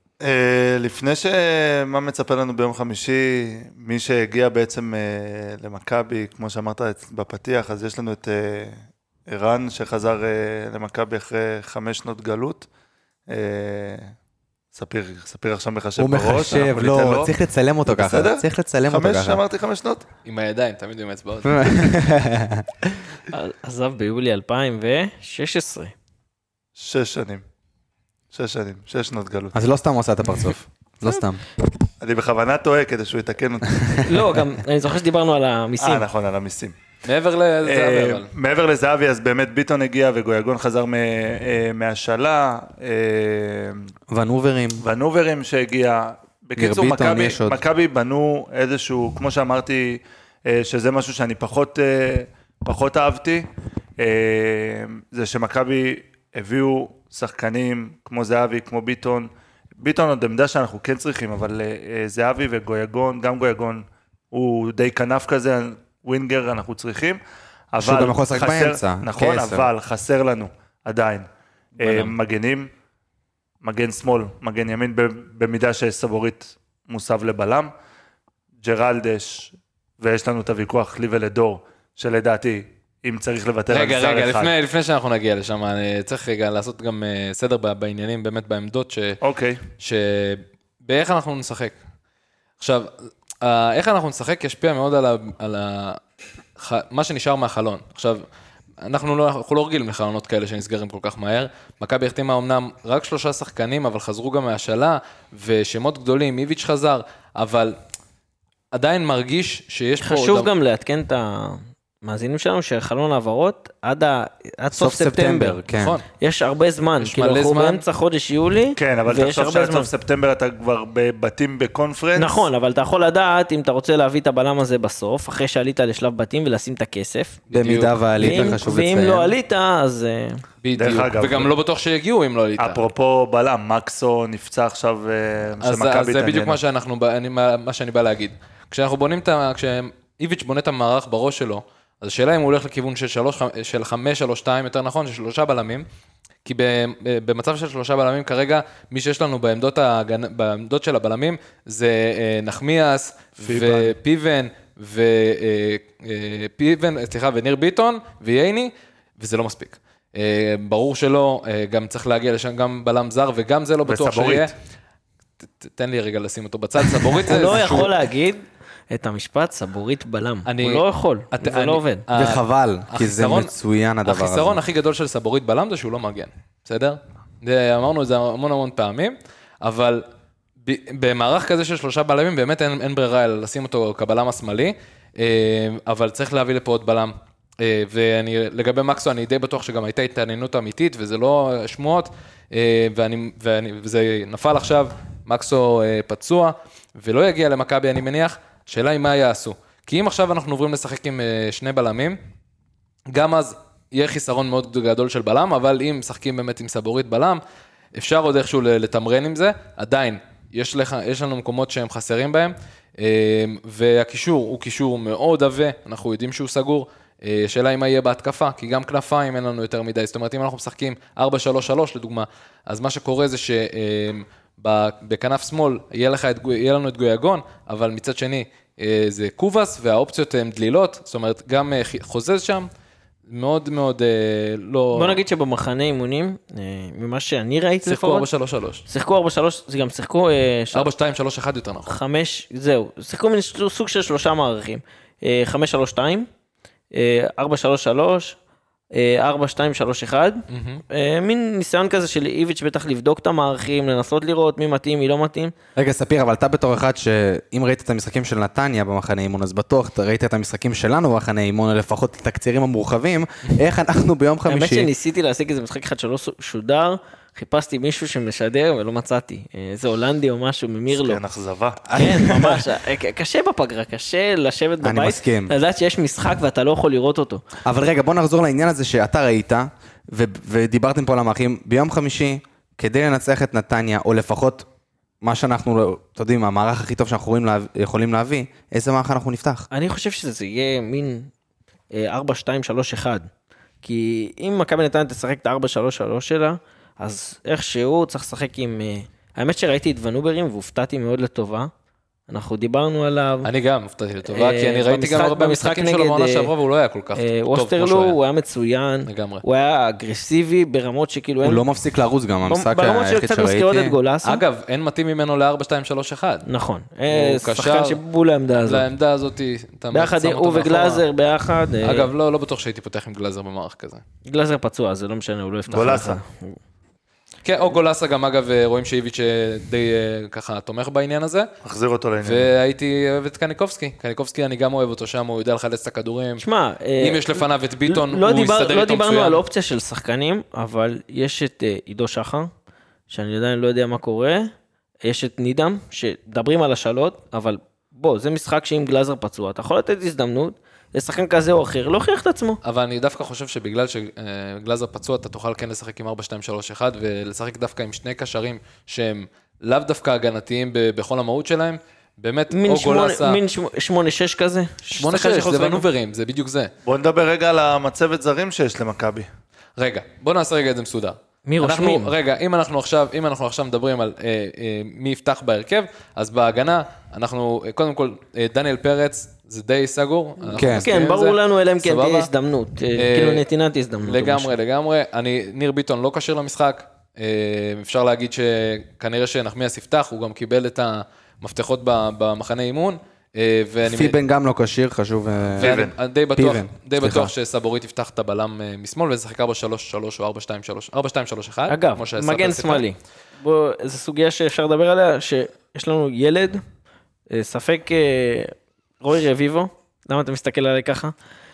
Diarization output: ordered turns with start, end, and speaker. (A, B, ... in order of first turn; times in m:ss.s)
0:00.2-0:12.7 A
0:13.3-0:14.1 A
0:14.7-0:17.3 A
0:16.0-0:19.4 B
0:17.8-0:20.0 A
0:20.2-0:22.0 C
0:21.4-0:23.0 B
0:23.3-0:25.9 D
0:26.8-0:27.4 A
0:28.3-0:29.5 A
0:29.5-0:31.4 B
0:32.0-0:34.1 A
0:34.0-0:36.0 D
0:35.8-0:36.7 A
0:37.0-0:38.3 C
0:37.6-0:43.8 A
0:44.1-0:44.8 B
0:44.8-0:53.5 A
0:46.6-0:47.6 B
0:54.0-1:07.2 A
1:07.7-1:11.3 A
1:07.8-1:09.7 B
1:11.8-1:12.7 A
1:11.8-1:12.1 D
1:13.6-1:17.7 A
1:18.6-1:24.5 A
1:23.7-1:29.2 C
1:29.2-1:29.6 A
1:29.8-1:31.8 C
1:32.6-1:36.0 C
1:36.6-1:38.2 C
1:38.8-1:47.8 C
1:48.7-1:50.5 C
1:50.0-1:55.6 D
1:54.7-1:56.0 B
1:55.7-1:56.0 C
1:56.2-1:59.9 D
1:57.0-1:57.8 C
1:58.8-2:02.5 A
2:02.2-2:07.4 D
2:07.5-2:08.5 C
2:07.5-2:09.3 B
2:08.2-2:10.4 D
2:10.6-2:12.8 C
2:10.8-2:11.5 A
2:12.6-2:16.6 A
2:15.6-2:25.8 C
2:26.4-2:44.5 C
2:33.4-2:33.9 A
2:43.8-2:44.5 A
2:45.6-2:48.0 C
2:47.0-2:52.0 D
2:50.4-2:53.5 C
2:52.1-2:54.6 B
2:54.0-3:00.0 C
3:00.6-3:22.2 C
3:23.1-3:27.4 C
3:27.9-3:52.7 C
3:53.3-3:55.2 C
3:54.9-3:58.3 D
3:57.8-3:58.8 C
3:58.9-4:00.9 D
4:00.7-4:01.9 C
4:01.9-4:06.3 D
4:06.9-4:08.4 D
4:08.9-4:15.5 D
4:10.5-4:10.8 C
4:15.8-4:24.9 B
4:24.5-4:31.2 D
4:30.9-4:31.8 A
4:31.9-4:32.7 B
4:31.9-4:37.4 D
4:34.8-4:35.5 B
4:37.6-4:44.7 B
4:45.2-4:49.7 B
4:49.7-4:51.3 D
4:51.9-4:53.3 D
4:53.8-5:01.7 D
5:02.3-5:03.5 D
5:03.4-5:08.2 C
5:04.2-5:06.5 D
5:07.2-5:11.6 D
5:09.0-5:09.4 C
5:11.4-5:14.0 B
5:12.4-5:14.4 D
5:14.2-5:16.4 C
5:16.4-5:18.8 D
5:17.1-5:18.0 C
5:18.6-5:21.0 C
5:19.9-5:22.1 D
5:21.8-5:24.0 C
5:24.2-5:26.6 D
5:25.7-5:26.2 A
5:27.4-5:31.5 C
5:31.6-5:32.5 A
5:32.2-5:36.4 C
5:36.4-5:42.5 D
5:37.0-5:39.4 C
5:43.1-5:44.5 D
5:45.0-5:52.6 D
5:52.6-6:03.4 C
6:02.5-6:05.8 D
6:04.9-6:06.7 C
6:06.8-6:09.3 A
6:09.8-6:22.3 C
6:11.5-6:12.1 D
6:20.5-6:20.9 B
6:20.7-6:24.5 D
6:22.9-6:23.4 C
6:24.0-6:34.2 C
6:33.8-6:35.8 B
6:35.6-6:42.9 C
6:35.6-6:35.9 A
6:36.4-6:37.3 B
6:41.7-6:46.6 D
6:47.3-6:51.1 D